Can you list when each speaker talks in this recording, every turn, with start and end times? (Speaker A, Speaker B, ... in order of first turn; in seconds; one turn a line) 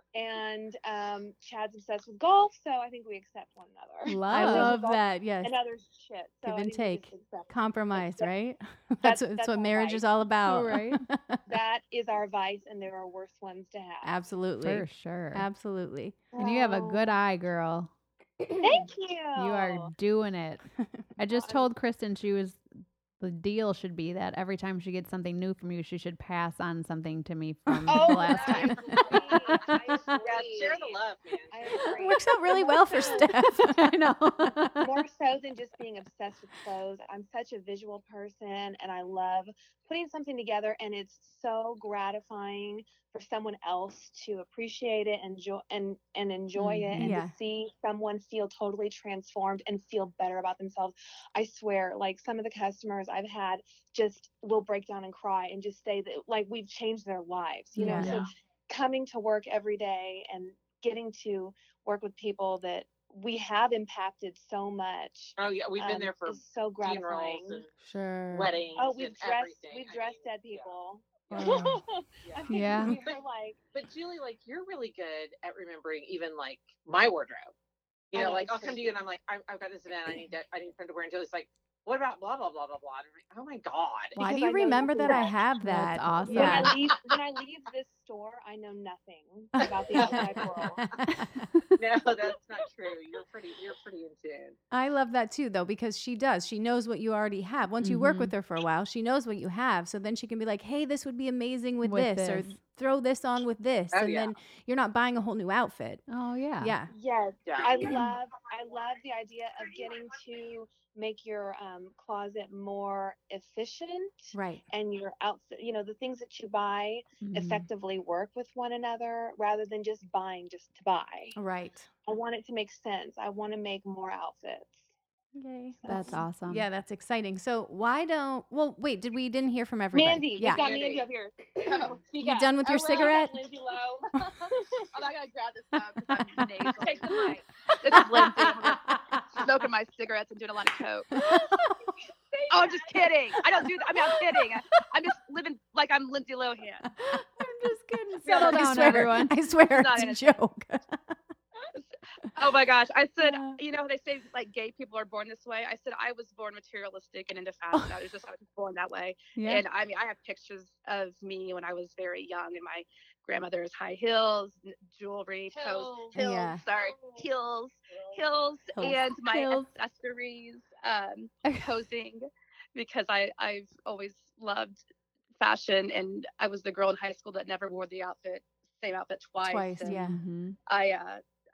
Speaker A: 0.1-8.3
Speaker B: 4.1-4.8
Speaker C: 4.3-5.5
Speaker C: 6.5-11.4
Speaker A: 9.0-10.0
Speaker B: 10.5-11.0
Speaker A: 11.5-14.2
Speaker C: 14.0-16.2
Speaker B: 14.6-15.5
Speaker A: 16.3-17.0
Speaker B: 16.4-17.9
Speaker A: 18.6-19.9
Speaker B: 19.4-20.6
Speaker B: 21.2-22.6
Speaker A: 21.4-21.7
Speaker B: 23.2-29.0
Speaker C: 27.7-28.3
Speaker A: 27.9-33.3
Speaker D: 28.2-31.8
Speaker C: 31.9-34.6
Speaker B: 33.0-35.0
Speaker A: 34.8-67.6
Speaker B: 46.6-47.1
Speaker C: 47.0-47.3
Speaker C: 57.8-58.2
Speaker B: 57.8-58.2
Speaker D: 58.0-58.3
Speaker D: 65.4-67.7
Speaker C: 67.8-68.5
Speaker D: 68.3-70.7
Speaker A: 68.8-73.6
Speaker C: 71.3-71.8
Speaker D: 72.2-73.2
Speaker B: 72.5-73.0
Speaker D: 73.7-77.5
Speaker D: 78.1-84.2
Speaker A: 78.1-79.0
Speaker C: 84.2-86.7
Speaker A: 84.2-85.4
Speaker B: 85.0-86.8
Speaker A: 86.2-90.8
Speaker D: 86.5-86.7
Speaker D: 89.9-90.9
Speaker C: 89.9-91.3
Speaker B: 91.1-91.7
Speaker D: 91.8-94.6
Speaker C: 94.7-106.0
Speaker B: 97.8-98.3
Speaker B: 101.8-102.6
Speaker D: 103.9-104.3
Speaker B: 106.1-106.8
Speaker C: 106.6-106.9
Speaker A: 106.9-121.4
Speaker D: 107.5-107.9
Speaker C: 114.3-114.6
Speaker B: 117.2-117.7
Speaker C: 121.4-121.9
Speaker A: 122.1-124.8
Speaker C: 125.3-130.7
Speaker A: 125.8-126.2
Speaker B: 125.9-126.7
Speaker A: 129.9-132.0
Speaker D: 130.6-131.0
Speaker E: 130.6-131.0
Speaker E: 131.7-134.1
Speaker C: 132.2-133.4
Speaker E: 134.9-141.2
Speaker A: 136.8-137.3
Speaker C: 137.9-139.0
Speaker C: 141.2-141.8
Speaker A: 142.5-143.0
Speaker E: 142.5-146.9
Speaker B: 147.0-149.3
Speaker E: 148.2-149.0
Speaker C: 148.3-150.9
Speaker E: 149.7-150.3
Speaker E: 151.7-174.8
Speaker C: 153.2-153.6
Speaker C: 157.7-158.0
Speaker B: 159.3-159.7
Speaker A: 165.6-166.2
Speaker C: 166.2-166.6
Speaker C: 168.7-169.0
Speaker B: 168.8-169.7
Speaker B: 171.4-171.7
Speaker E: 175.4-180.0
Speaker C: 179.4-180.2
Speaker B: 179.9-180.6
Speaker E: 180.7-181.2